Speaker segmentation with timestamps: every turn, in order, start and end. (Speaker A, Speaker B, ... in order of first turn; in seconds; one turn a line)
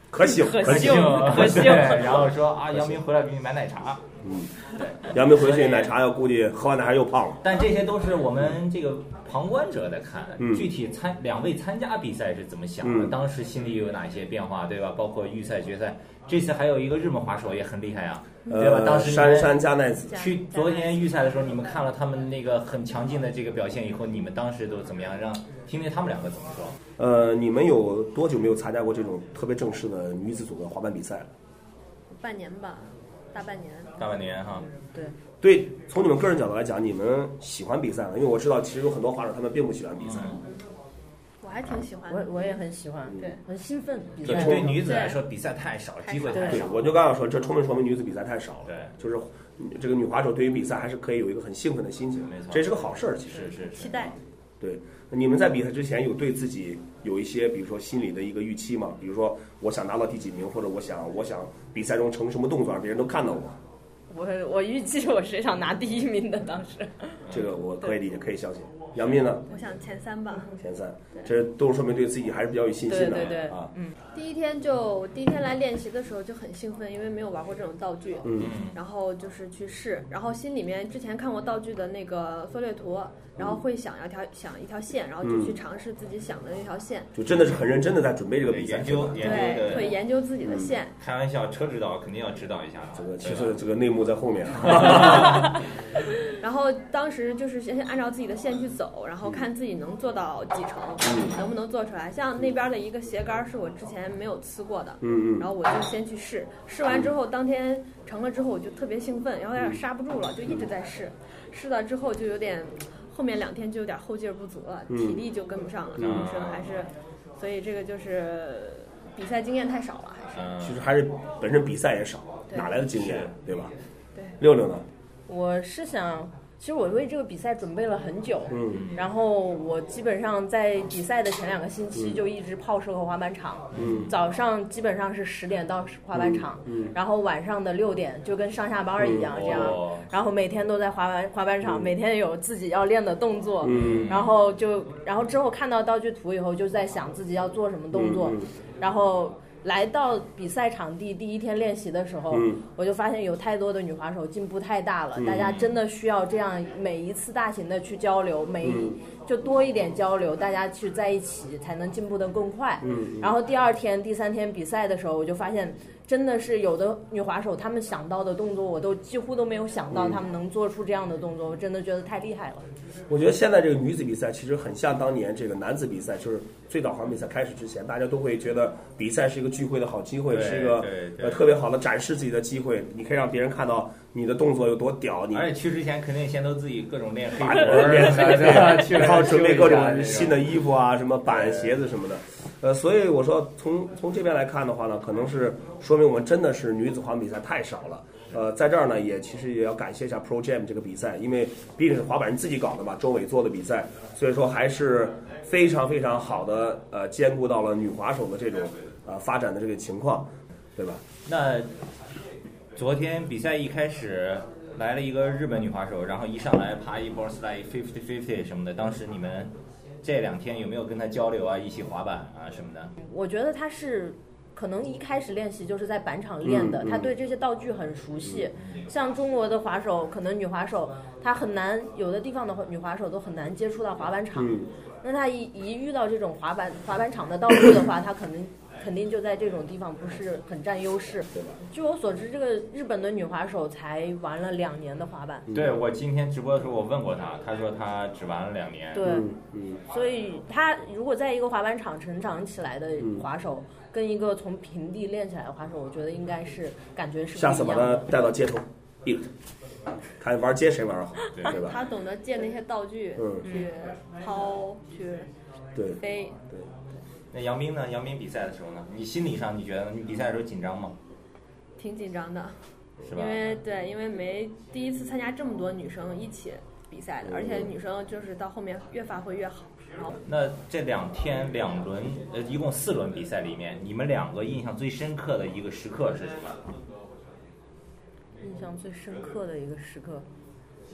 Speaker A: 0.1-1.8
Speaker B: 0.2-2.2
Speaker C: 0.5-4.0
Speaker A: 4.2-4.5
Speaker C: 4.8-5.9
Speaker A: 5.1-7.4
Speaker C: 7.4-26.8
Speaker A: 10.4-10.7
Speaker A: 12.8-13.1
Speaker A: 18.5-20.3
Speaker D: 20.1-21.4
Speaker A: 27.0-31.3
Speaker D: 32.1-33.9
Speaker C: 34.0-34.7
Speaker B: 34.8-35.1
Speaker A: 35.4-40.4
Speaker C: 40.0-40.4
Speaker D: 41.4-42.6
Speaker B: 42.1-44.8
Speaker A: 44.2-44.8
Speaker C: 44.2-46.8
Speaker D: 44.6-45.2
Speaker D: 46.0-46.6
Speaker B: 46.3-46.6
Speaker A: 46.4-53.5
Speaker C: 52.2-54.1
Speaker D: 53.6-54.1
Speaker A: 54.6-63.6
Speaker B: 64.1-67.2
Speaker A: 67.3-69.4
Speaker D: 69.5-70.5
Speaker A: 70.5-73.7
Speaker B: 72.9-73.9
Speaker D: 74.1-87.1
Speaker A: 78.2-78.5
Speaker C: 78.4-78.8
Speaker A: 83.4-83.6
Speaker A: 85.2-85.6
Speaker A: 87.1-89.3
Speaker C: 87.3-87.6
Speaker C: 88.5-90.0
Speaker D: 89.2-90.9
Speaker A: 90.4-90.8
Speaker C: 91.0-93.6
Speaker A: 92.9-95.6
Speaker C: 94.6-95.4
Speaker D: 96.3-120.5
Speaker A: 101.0-101.3
Speaker A: 105.0-105.5
Speaker A: 114.9-115.2
Speaker C: 116.0-116.8
Speaker C: 120.3-120.8
Speaker A: 120.6-123.7
Speaker C: 122.9-123.3
Speaker A: 124.4-124.8
Speaker B: 125.3-172.6
Speaker A: 128.5-128.9
Speaker C: 128.7-129.0
Speaker A: 131.9-132.2
Speaker C: 133.7-134.1
Speaker A: 133.7-134.1
Speaker A: 136.1-136.9
Speaker A: 139.0-139.8
Speaker C: 139.3-140.1
Speaker A: 143.6-144.1
Speaker C: 143.7-144.3
Speaker A: 147.9-148.5
Speaker A: 152.3-152.6
Speaker A: 155.2-155.6
Speaker C: 155.4-155.7
Speaker A: 158.6-158.9
Speaker A: 162.8-163.3
Speaker A: 169.9-170.2
Speaker A: 173.1-185.5
Speaker C: 180.3-181.5
Speaker C: 185.3-190.5
Speaker A: 187.4-211.0
Speaker C: 191.3-191.8
Speaker C: 211.2-211.7
Speaker C: 212.8-222.9
Speaker B: 223.0-245.5
Speaker A: 226.4-227.1
Speaker C: 228.6-228.9
Speaker A: 234.3-234.7
Speaker C: 245.5-249.1
Speaker B: 248.9-249.3
Speaker A: 249.0-249.8
Speaker B: 249.9-258.1
Speaker A: 253.0-253.2
Speaker A: 257.3-259.3
Speaker A: 260.2-261.8
Speaker C: 261.3-261.6
Speaker D: 261.5-265.3
Speaker A: 263.2-263.5
Speaker B: 263.4-263.7
Speaker A: 265.7-266.7
Speaker D: 266.0-266.4
Speaker C: 267.3-270.9
Speaker D: 271.8-272.6
Speaker C: 273.0-273.5
Speaker D: 273.1-280.1
Speaker A: 277.2-277.7
Speaker C: 280.2-286.6
Speaker B: 288.4-290.2